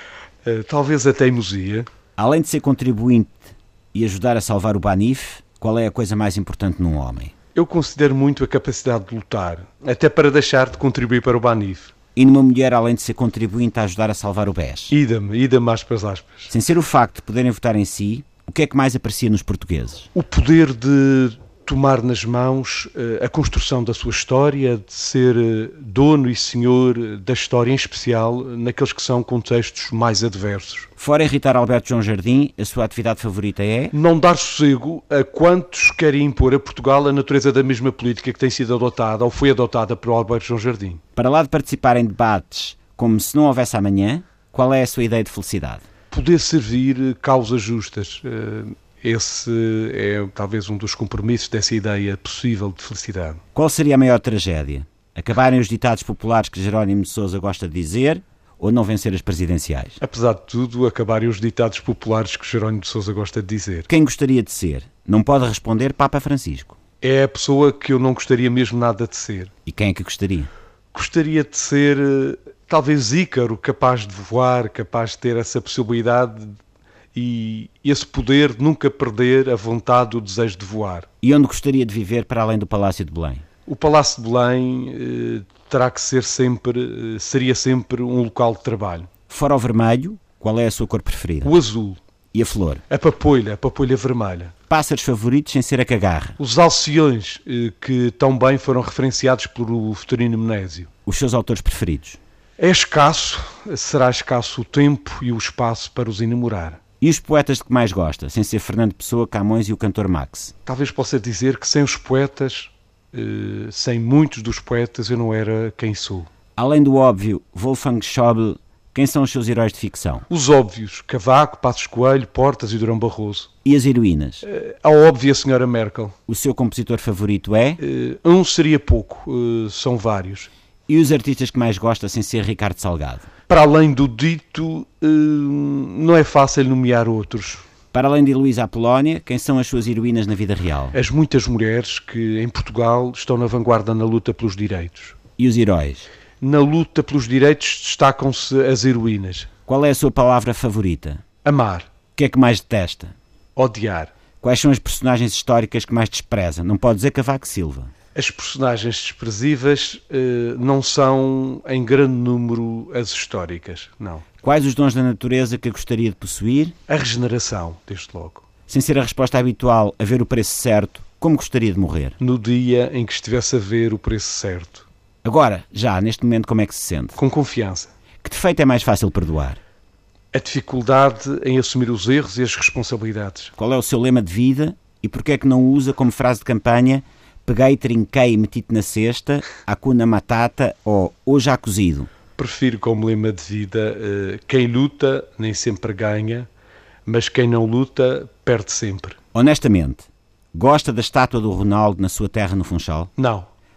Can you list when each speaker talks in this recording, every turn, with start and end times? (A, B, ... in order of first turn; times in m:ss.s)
0:00.4-0:01.9 A
0:02.2-0:07.3 B
0:07.6-0:12.0 A
0:12.2-0:14.9 B
0:14.9-0:16.5 A
0:16.5-0:20.1 B
0:20.2-0:30.9 A
0:31.0-0:33.9 B
0:33.9-0:41.0 A
0:41.2-0:45.8 B
0:46.1-0:53.4 A
0:53.6-1:00.0 B
1:00.0-1:03.9 A
1:03.9-1:06.8 B
1:07.0-1:09.5 A
1:09.7-1:10.5 B
1:10.9-1:16.6 A
1:17.1-1:21.1 A
1:21.2-1:23.4 B
1:23.7-1:29.1 A
1:29.3-1:31.6 B
1:31.4-1:32.0 A
1:32.3-1:32.8 B
1:32.9-1:34.5 A
1:34.7-1:36.4 B
1:36.4-1:40.9 A
1:41.1-1:42.2 B
1:42.6-1:46.8 A
1:47.0-1:50.5 B
1:50.7-1:56.3 A
1:56.6-2:00.3 B
2:00.3-2:03.5 A
2:03.6-2:04.4 B
2:04.4-2:06.2 A
2:06.3-2:07.8 B
2:07.8-2:10.5 A
2:10.9-2:13.3 B
2:13.5-2:17.6 A
2:17.9-2:21.0 B
2:20.9-2:25.2 A
2:25.4-2:26.1 B
2:26.4-2:29.5 A
2:29.7-2:31.2 B
2:31.4-2:31.9 A
2:32.2-2:33.1 B
2:33.6-2:34.1 A
2:34.4-2:37.9 B
2:38.2-2:44.2 A
2:44.4-2:46.8 B
2:46.9-2:48.5 A
2:48.7-2:52.2 B
2:52.2-2:54.9 A
2:55.2-2:57.2 B
2:57.2-2:57.9 A
2:58.2-2:59.6 B
3:00.3-3:03.5 A
3:03.6-3:12.1 B
3:12.4-3:16.5 A
3:17.1-3:19.2 A
3:19.3-3:23.1 B
3:23.2-3:23.5 A